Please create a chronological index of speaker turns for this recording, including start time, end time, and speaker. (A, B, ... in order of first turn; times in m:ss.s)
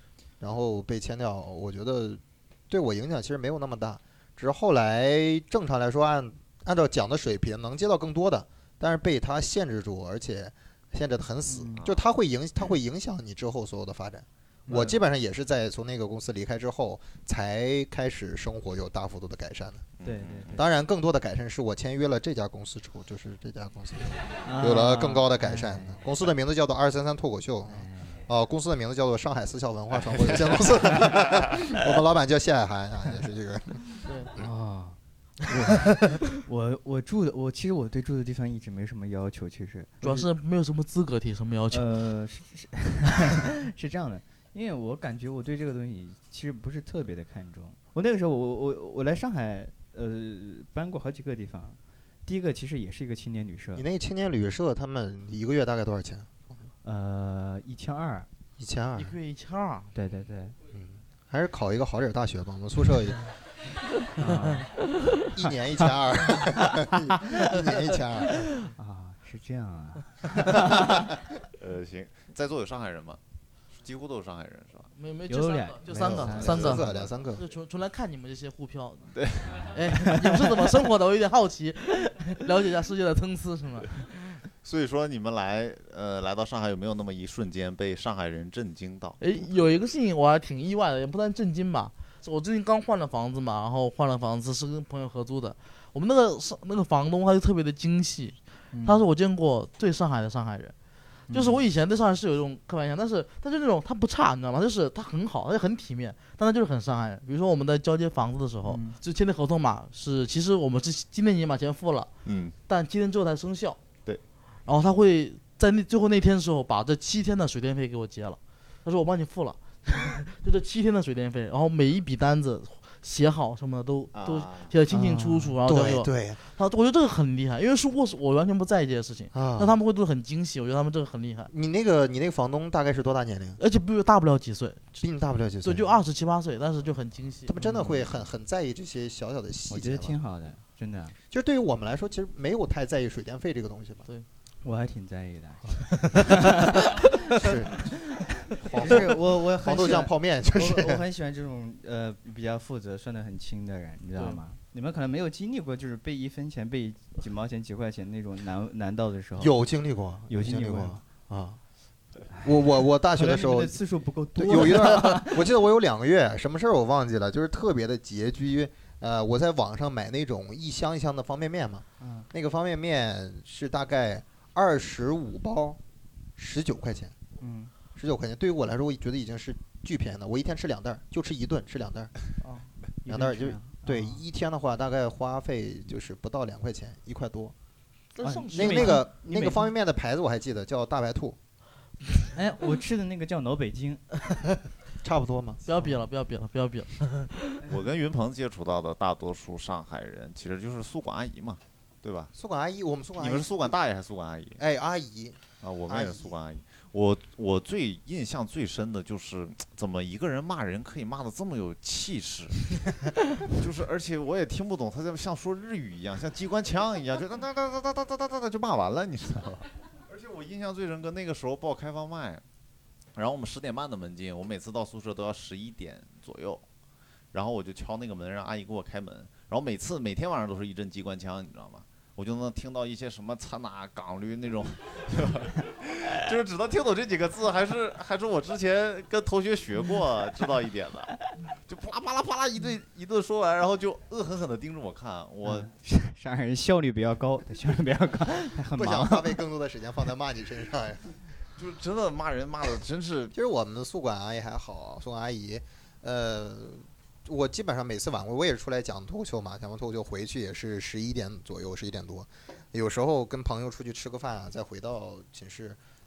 0:00.4-0:19.9 A
0:11.5-0:11.8 B
0:11.8-0:12.0 C
0:14.7-0:15.0 B
0:20.0-0:20.6 C
0:20.0-0:20.6 B
0:20.5-0:34.5 A
0:24.4-0:26.0 B
0:27.7-0:28.3 B
0:34.0-0:34.3 D
0:34.4-0:40.3 B
0:40.0-0:41.8 D
0:41.7-0:53.8 B
0:53.8-0:56.3 A
0:56.8-0:58.3 B
0:58.6-0:59.2 A
0:59.0-0:59.9 D
0:59.9-1:00.6 B
1:00.7-1:03.3 A
1:04.2-1:04.8 B
1:05.3-1:08.5 A
1:08.8-1:11.1 B
1:11.6-1:13.2 C
1:13.8-1:14.9 C
1:15.0-1:16.8 D
1:15.3-1:16.8 B
1:15.9-1:17.4 A
1:16.4-1:17.1 C
1:17.4-1:19.1 D
1:19.1-1:19.8 C
1:19.7-1:24.1 D
1:24.6-1:29.2 C
1:29.2-1:40.7 D
1:38.7-1:39.0 B
1:41.3-1:41.6 B
1:41.3-1:52.1 D
1:48.6-1:49.0 B
1:52.2-1:52.5 C
1:52.7-1:53.8 D
1:54.6-2:11.5 D
2:04.1-2:04.7 C
2:04.9-2:05.5 B
2:05.6-2:06.4 A
2:09.3-2:09.8 A
2:11.5-2:13.6 A
2:13.6-2:14.8 D
2:14.9-2:16.0 A
2:15.6-2:17.5 D
2:17.4-2:20.2 A
2:17.6-2:18.2 B
2:19.7-2:21.2 B
2:21.3-2:24.1 A
2:24.6-2:39.5 B
2:27.4-2:27.9 A
2:28.6-2:31.0 A
2:34.2-2:34.4 D
2:39.4-2:41.6 A
2:40.3-2:41.0 B
2:42.3-2:45.5 B
2:42.4-2:43.8 A
2:44.3-2:55.8 A
2:52.0-2:52.3 B
2:56.4-2:57.2 A
2:57.4-2:57.7 B
2:58.0-3:02.1 A
3:02.4-3:02.7 D
3:03.0-3:04.2 B
3:03.0-3:07.5 A
3:08.1-3:09.0 D
3:08.2-3:09.7 B
3:08.5-3:11.4 A
3:12.3-3:14.0 B
3:15.0-3:15.6 A
3:15.6-3:17.3 D
3:17.7-3:22.3 C
3:22.3-3:23.7 A
3:23.2-3:24.6 C
3:24.6-3:26.3 A
3:25.6-3:32.8 C
3:33.4-3:42.4 C
3:43.1-3:46.6 C
3:47.3-4:05.7 C
4:05.4-4:09.4 B
4:08.7-4:11.0 A
4:11.6-4:13.3 C
4:13.3-4:25.8 A